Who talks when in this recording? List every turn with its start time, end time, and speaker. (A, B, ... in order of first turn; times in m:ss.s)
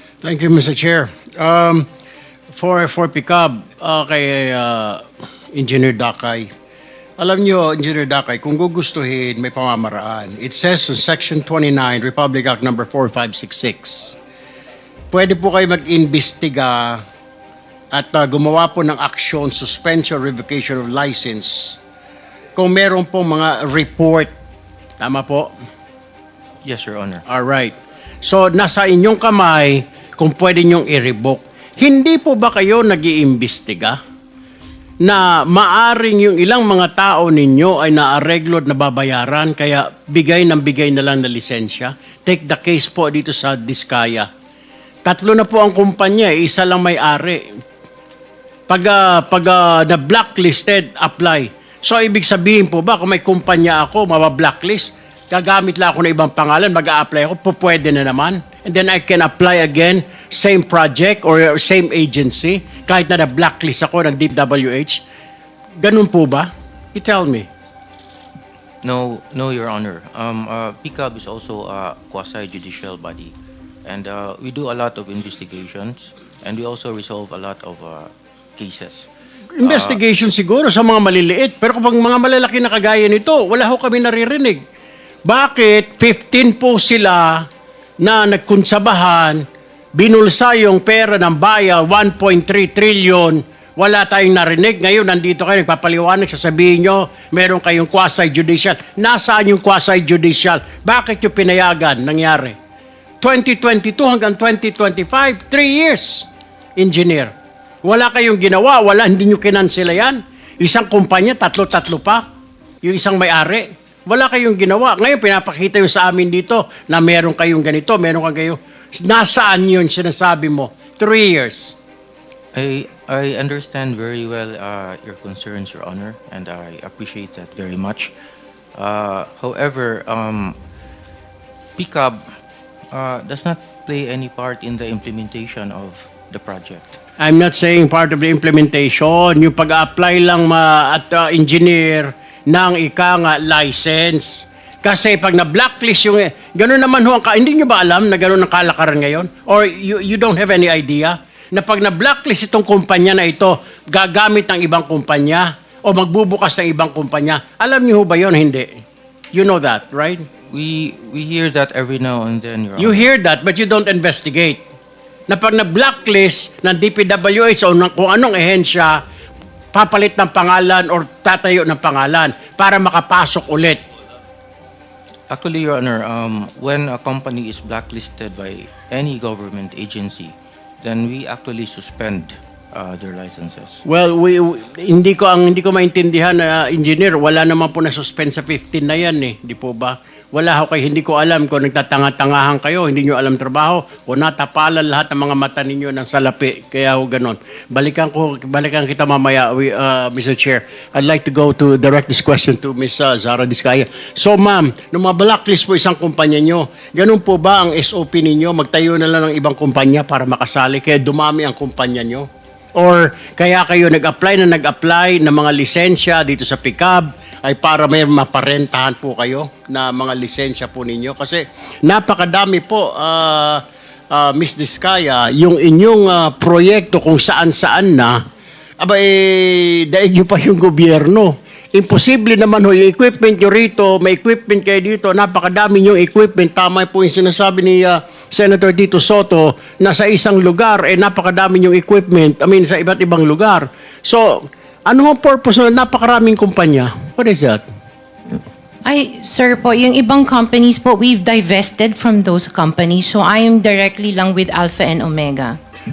0:00.2-0:01.9 A
0:02.5-0:06.5 A
0:07.2-0:14.2 A
0:15.1-0:17.0 A
0:17.9-0:21.8 A
0:22.6-0:24.3 A
0:25.0-0:25.5 A
0:26.6-0:27.2 B
0:27.3-0:34.0 A
0:35.0-0:44.3 A
0:45.0-0:47.4 A
0:48.7-1:05.0 A
1:05.8-1:07.5 A
1:08.8-1:19.1 B
1:19.5-1:24.6 A
1:19.6-1:20.0 B
1:25.2-1:27.5 A
1:28.0-1:42.6 A
1:43.2-1:47.3 A
1:47.8-1:52.2 A
1:52.8-2:01.7 A
2:02.5-2:08.1 B
2:08.7-2:10.6 B
2:11.8-2:12.3 B
2:12.9-2:17.0 B
2:17.2-2:38.8 A
2:39.3-2:40.2 A
2:40.5-2:43.1 B
2:42.8-2:44.6 A
2:45.3-2:49.0 A
2:49.7-2:53.8 A
2:55.3-3:03.8 B
3:03.8-3:48.2 A
3:48.8-4:07.6 A
4:08.8-4:15.6 C